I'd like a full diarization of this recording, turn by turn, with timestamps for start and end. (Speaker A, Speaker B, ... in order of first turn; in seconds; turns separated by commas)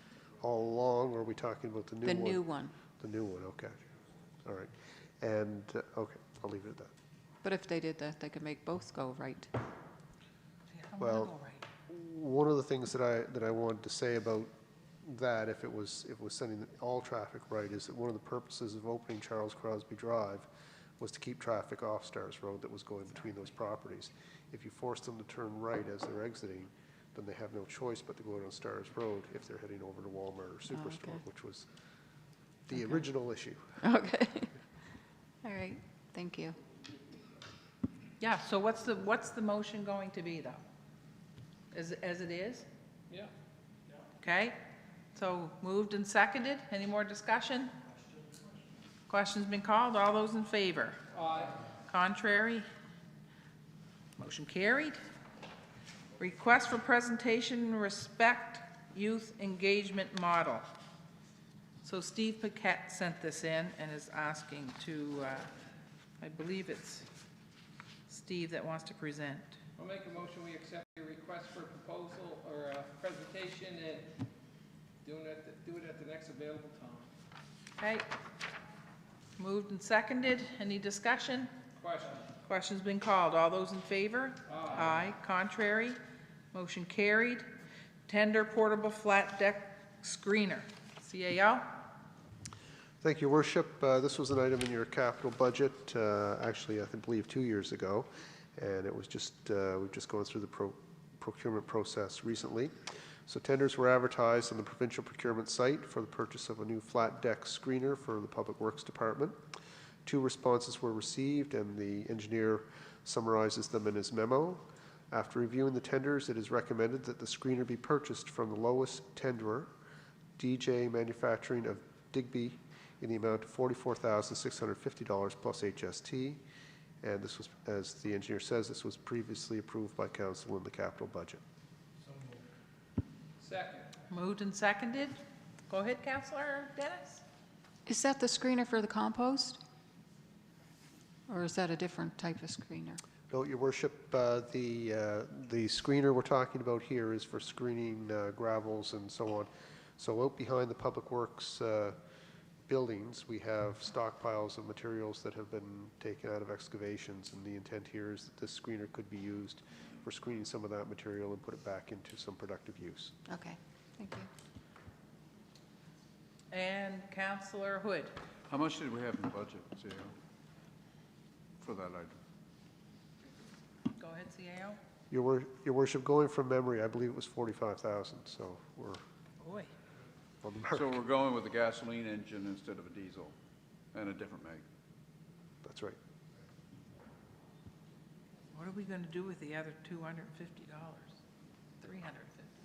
Speaker A: 0.4-2.4, Speaker B: 2.0-2.7, Speaker A: 3.0-3.8, Speaker A: 4.5-6.9, Speaker B: 7.4-9.5, Speaker C: 10.7-11.6, Speaker A: 11.0-11.4, Speaker A: 11.9-14.5, Speaker A: 15.0-20.5, Speaker A: 21.0-31.7, Speaker B: 30.7-31.2, Speaker A: 32.7-33.8, Speaker B: 33.8-34.5, Speaker B: 35.4-36.6, Speaker C: 38.2-40.6, Speaker C: 41.7-42.7, Speaker C: 44.2-44.6, Speaker C: 45.1-47.7, Speaker C: 49.1-51.0, Speaker D: 51.1-51.6, Speaker C: 51.9-52.7, Speaker C: 54.2-55.0, Speaker C: 56.2-60.6, Speaker C: 61.8-65.5, Speaker C: 66.2-67.1, Speaker C: 68.1-69.6, Speaker D: 69.8-74.1, Speaker D: 75.0-77.1, Speaker C: 77.8-78.1, Speaker C: 79.4-81.5, Speaker D: 81.8-82.3, Speaker C: 82.4-86.0, Speaker D: 84.5-84.9, Speaker C: 86.5-87.5, Speaker C: 88.1-91.8, Speaker A: 93.0-102.7, Speaker A: 103.3-109.4, Speaker A: 110.0-119.7, Speaker A: 120.4-126.4, Speaker A: 127.0-131.4, Speaker D: 133.4-133.9, Speaker C: 134.1-135.2, Speaker C: 135.7-137.2, Speaker B: 137.9-139.6, Speaker B: 141.3-143.0, Speaker A: 143.3-152.0, Speaker A: 152.7-163.2, Speaker B: 163.3-164.3, Speaker C: 166.5-168.2, Speaker E: 168.5-170.1, Speaker E: 171.6-172.2, Speaker C: 173.9-174.8, Speaker A: 175.1-179.0, Speaker C: 179.4-179.7, Speaker A: 180.4-180.9, Speaker E: 180.7-183.3, Speaker E: 183.9-184.6, Speaker A: 185.6-186.0, Speaker C: 188.5-191.2, Speaker C: 191.8-192.5